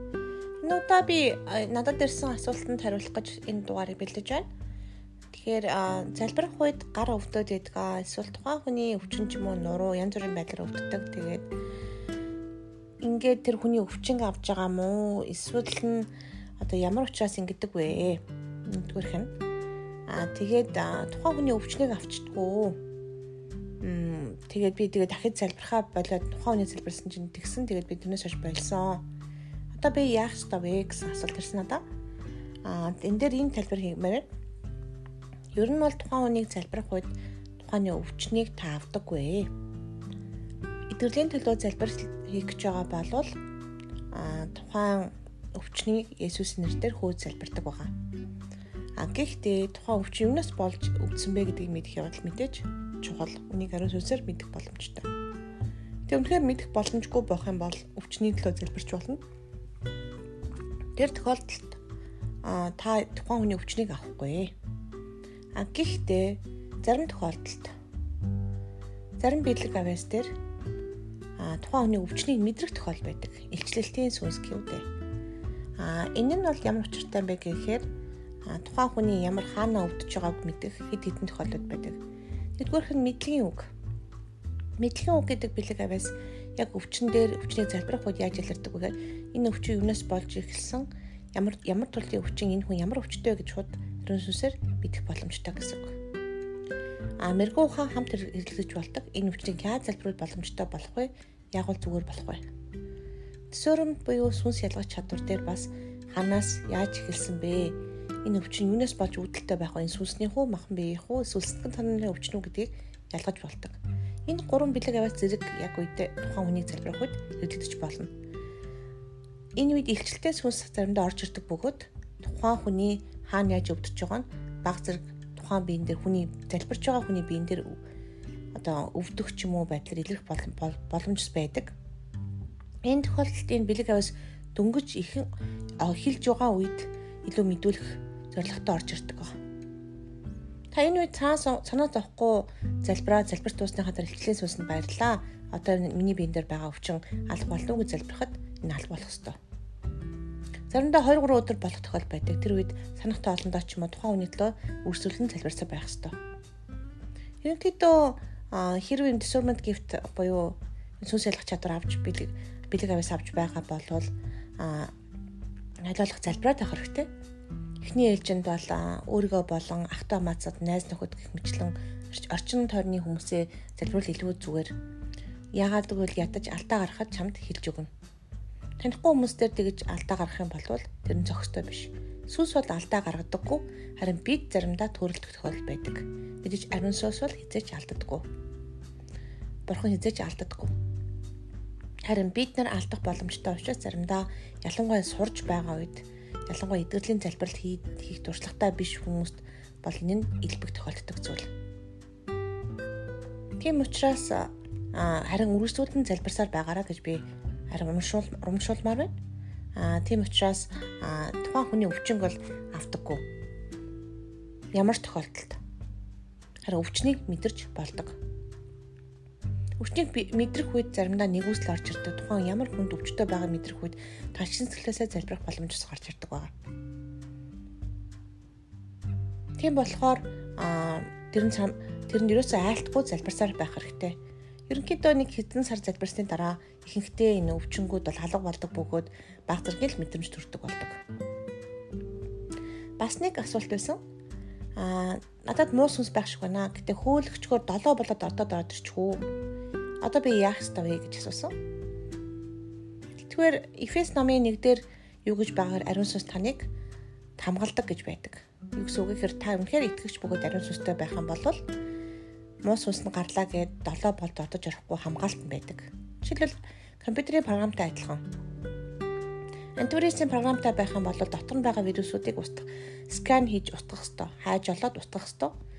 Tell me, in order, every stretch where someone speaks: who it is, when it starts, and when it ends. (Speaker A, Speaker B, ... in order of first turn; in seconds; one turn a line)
Speaker A: 0.6-4.5
Speaker A: 5.3-11.5
Speaker A: 13.0-19.3
Speaker A: 20.1-22.8
Speaker A: 23.8-29.0
Speaker A: 29.7-31.8
Speaker A: 32.6-34.2
Speaker A: 35.5-39.5
Speaker A: 40.9-43.4
Speaker A: 44.1-47.9
Speaker A: 49.0-55.1
Speaker A: 56.1-59.2
Speaker A: 61.0-61.8
Speaker A: 62.4-64.5
Speaker A: 65.5-67.7
Speaker A: 69.2-70.3
Speaker A: 71.4-74.8
Speaker A: 75.8-77.8
Speaker A: 78.4-82.0
Speaker A: 82.6-83.7
Speaker A: 84.8-95.9
Speaker A: 97.2-102.4
Speaker A: 103.5-118.1
Speaker A: 119.5-127.8
Speaker A: 128.5-131.7
Speaker A: 132.8-135.3
Speaker A: 135.8-139.3
Speaker A: 140.7-149.3
Speaker A: 150.7-156.1
Speaker A: 157.4-164.9
Speaker A: 165.8-167.1
Speaker A: 167.8-174.7
Speaker A: 175.5-177.9
Speaker A: 178.8-188.2
Speaker A: 189.7-190.7
Speaker A: 192.1-201.5
Speaker A: 203.6-209.1
Speaker A: 209.8-213.2
Speaker A: 214.7-215.6
Speaker A: 216.7-218.2
Speaker A: 219.8-226.5
Speaker A: 229.6-241.0
Speaker A: 243.0-244.0
Speaker A: 244.8-249.2
Speaker A: 250.0-251.5
Speaker A: 253.1-256.7
Speaker A: 257.4-261.6
Speaker A: 262.6-268.2
Speaker A: 269.8-275.5